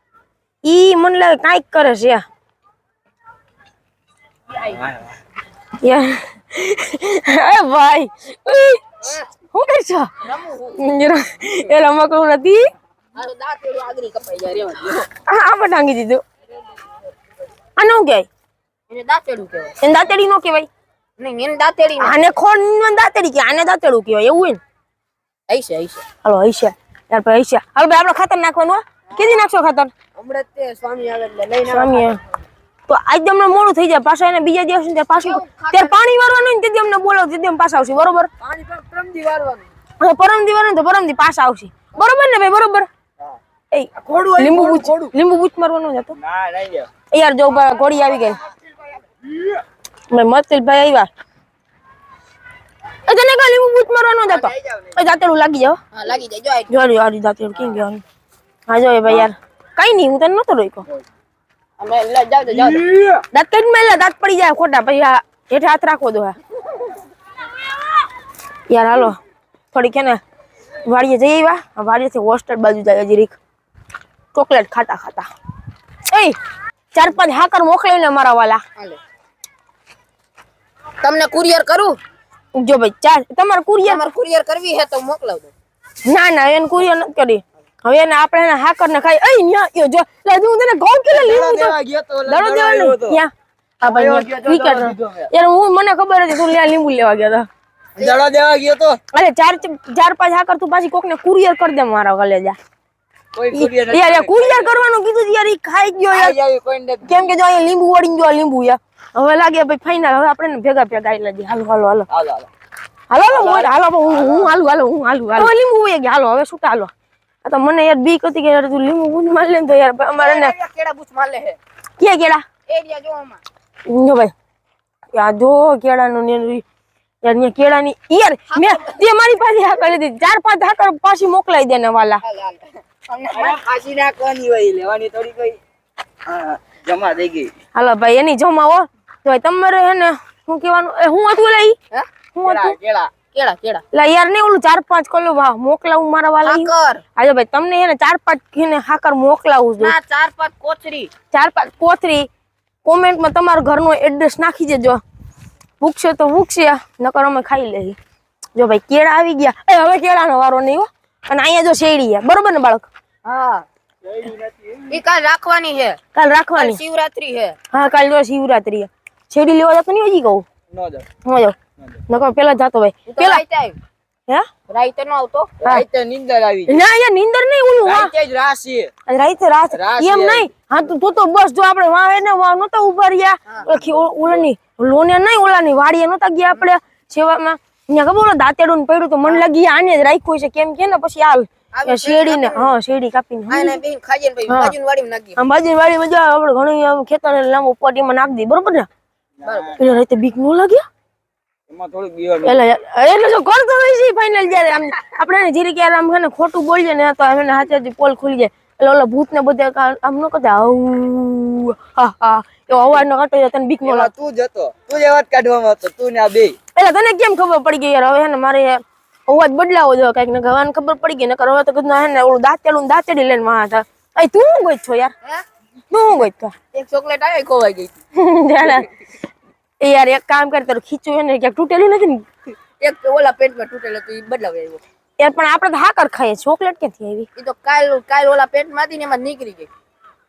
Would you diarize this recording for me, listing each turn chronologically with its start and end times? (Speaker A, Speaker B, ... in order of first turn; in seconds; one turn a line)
Speaker A: 0.6-2.2
Speaker A: 5.8-9.0
Speaker A: 9.5-10.1
Speaker B: 10.2-10.8
Speaker A: 10.8-12.7
Speaker B: 13.2-15.1
Speaker A: 15.1-16.2
Speaker A: 17.8-18.3
Speaker B: 18.9-19.8
Speaker A: 19.8-20.7
Speaker B: 21.2-22.3
Speaker A: 22.0-24.6
Speaker B: 25.5-26.1
Speaker A: 26.2-29.9
Speaker B: 30.2-32.2
Speaker A: 31.7-32.2
Speaker A: 32.9-38.3
Speaker B: 35.1-36.0
Speaker B: 38.4-39.7
Speaker A: 40.0-42.9
Speaker A: 43.7-46.2
Speaker C: 44.0-45.1
Speaker C: 46.2-46.9
Speaker A: 47.1-48.4
Speaker A: 50.1-51.1
Speaker A: 53.1-55.8
Speaker B: 55.9-56.7
Speaker A: 56.7-58.0
Speaker A: 58.7-60.9
Speaker B: 61.8-62.9
Speaker C: 62.8-63.2
Speaker A: 63.3-66.4
Speaker A: 68.7-69.2
Speaker A: 69.7-70.2
Speaker A: 70.8-73.4
Speaker A: 74.3-75.3
Speaker A: 76.1-76.4
Speaker A: 76.9-78.6
Speaker B: 81.0-82.0
Speaker A: 82.5-84.0
Speaker B: 83.8-85.5
Speaker A: 86.0-97.5
Speaker C: 91.1-93.2
Speaker C: 93.8-95.3
Speaker C: 98.0-99.0
Speaker A: 99.1-102.6
Speaker C: 103.3-104.8
Speaker A: 103.5-106.4
Speaker C: 106.1-107.3
Speaker A: 107.0-112.1
Speaker C: 112.1-112.5
Speaker A: 113.1-116.9
Speaker C: 113.3-114.4
Speaker A: 117.4-120.5
Speaker B: 120.2-121.6
Speaker A: 122.0-122.5
Speaker B: 122.7-123.4
Speaker A: 123.9-124.3
Speaker A: 125.1-126.6
Speaker A: 127.2-132.2
Speaker B: 128.5-129.0
Speaker B: 132.2-133.6
Speaker C: 133.3-135.6
Speaker C: 136.3-137.5
Speaker A: 137.7-141.8
Speaker B: 141.9-143.8
Speaker A: 142.3-142.8
Speaker C: 142.5-143.1
Speaker A: 143.9-149.9
Speaker B: 146.4-147.0
Speaker B: 149.8-151.1
Speaker A: 151.3-152.3
Speaker A: 152.8-155.0
Speaker A: 155.8-158.0
Speaker A: 158.6-162.9
Speaker B: 163.2-163.7
Speaker C: 164.1-164.8
Speaker B: 164.8-166.0
Speaker A: 166.1-166.8
Speaker B: 166.6-167.6
Speaker A: 167.7-170.5
Speaker C: 170.7-171.1
Speaker A: 171.2-171.6
Speaker A: 172.1-173.4
Speaker B: 173.1-173.8
Speaker B: 174.7-175.6
Speaker C: 175.6-176.8
Speaker A: 176.7-178.1
Speaker C: 177.8-178.9
Speaker A: 179.1-193.8
Speaker C: 179.7-180.5
Speaker B: 191.7-192.7
Speaker B: 193.5-195.4
Speaker A: 194.5-194.7
Speaker A: 195.4-198.9
Speaker C: 199.4-199.8
Speaker B: 199.4-199.8
Speaker A: 199.8-200.8
Speaker C: 201.7-202.6
Speaker A: 202.4-214.1
Speaker C: 213.8-216.6
Speaker A: 216.7-225.1
Speaker A: 225.9-226.6
Speaker B: 226.7-228.0
Speaker A: 228.2-228.9
Speaker A: 229.8-232.2
Speaker B: 232.8-234.8
Speaker A: 235.2-237.3
Speaker B: 237.4-239.7